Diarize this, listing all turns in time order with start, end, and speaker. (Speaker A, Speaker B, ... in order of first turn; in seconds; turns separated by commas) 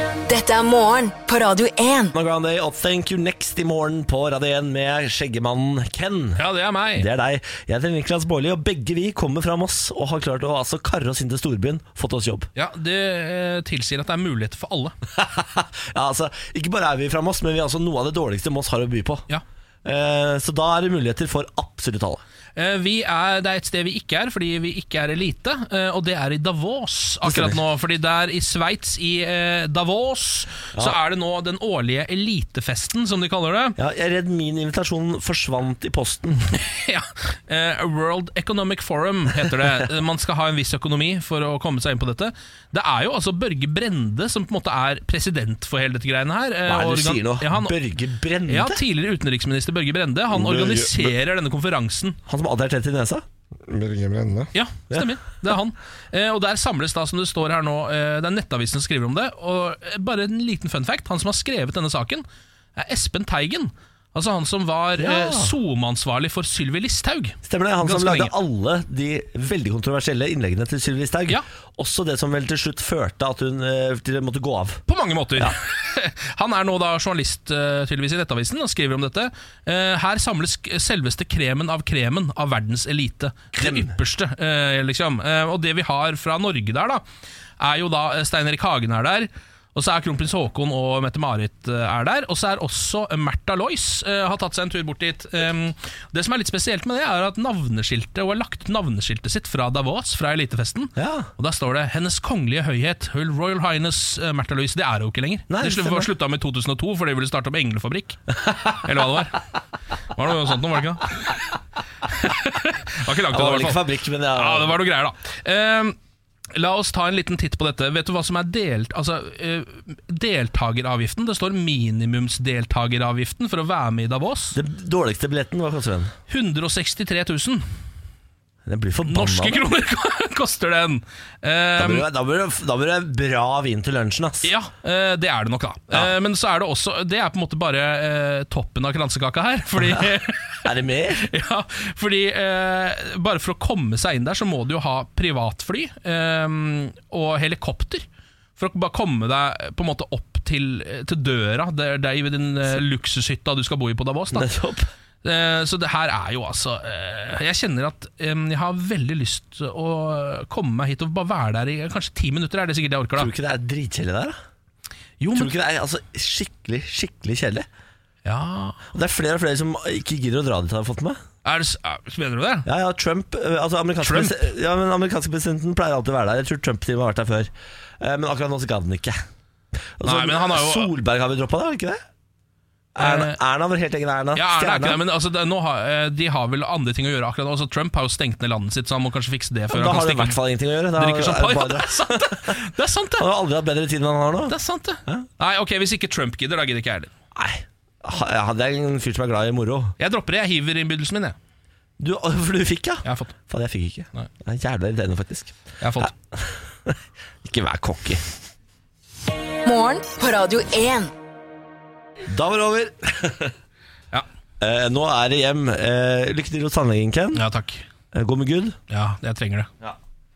Speaker A: 0.3-2.1, Speaker B: 2.1-6.4, Speaker C: 6.4-7.1, Speaker B: 7.0-12.5, Speaker C: 12.6-14.9, Speaker B: 15.2-19.2, Speaker B: 19.9-22.2, Speaker C: 22.6-33.8, Speaker B: 27.2-27.6, Speaker B: 33.8-36.5, Speaker C: 36.5-47.8, Speaker B: 46.7-48.8, Speaker C: 48.5-52.2, Speaker B: 50.3-51.1, Speaker B: 52.3-55.1, Speaker C: 54.5-62.2, Speaker C: 62.8-68.3, Speaker B: 65.0-65.5, Speaker B: 67.4-74.8, Speaker C: 74.9-87.0, Speaker B: 83.5-83.9, Speaker C: 87.6-109.4, Speaker B: 101.0-101.3, Speaker B: 105.5-106.1, Speaker C: 110.1-111.5, Speaker C: 112.0-116.0, Speaker B: 113.3-114.8, Speaker C: 116.5-124.6, Speaker B: 124.5-126.1, Speaker C: 126.3-127.7, Speaker B: 128.7-129.7, Speaker C: 129.1-132.1, Speaker B: 131.8-134.5, Speaker C: 134.4-140.7, Speaker B: 139.8-140.1, Speaker B: 140.6-141.3, Speaker C: 141.2-148.1, Speaker C: 148.6-154.5, Speaker B: 154.3-154.9, Speaker C: 155.2-163.3, Speaker B: 163.2-164.4, Speaker C: 165.2-165.5, Speaker B: 165.3-167.7, Speaker C: 168.2-168.8, Speaker B: 168.9-171.2, Speaker C: 171.4-172.7, Speaker B: 172.7-179.2, Speaker C: 174.0-174.4, Speaker B: 180.0-182.0, Speaker C: 180.1-180.9, Speaker B: 183.0-185.0, Speaker C: 183.0-183.4, Speaker C: 184.4-190.4, Speaker B: 189.7-192.6, Speaker C: 191.0-193.3, Speaker B: 193.2-195.3, Speaker C: 194.5-197.1, Speaker B: 197.3-199.9, Speaker C: 200.0-201.4, Speaker B: 202.0-208.2, Speaker C: 203.1-203.4, Speaker C: 205.8-206.1, Speaker A: 209.7-211.1, Speaker B: 212.3-213.6, Speaker B: 214.6-217.4, Speaker C: 217.3-217.8, Speaker B: 218.1-218.8, Speaker C: 218.9-219.7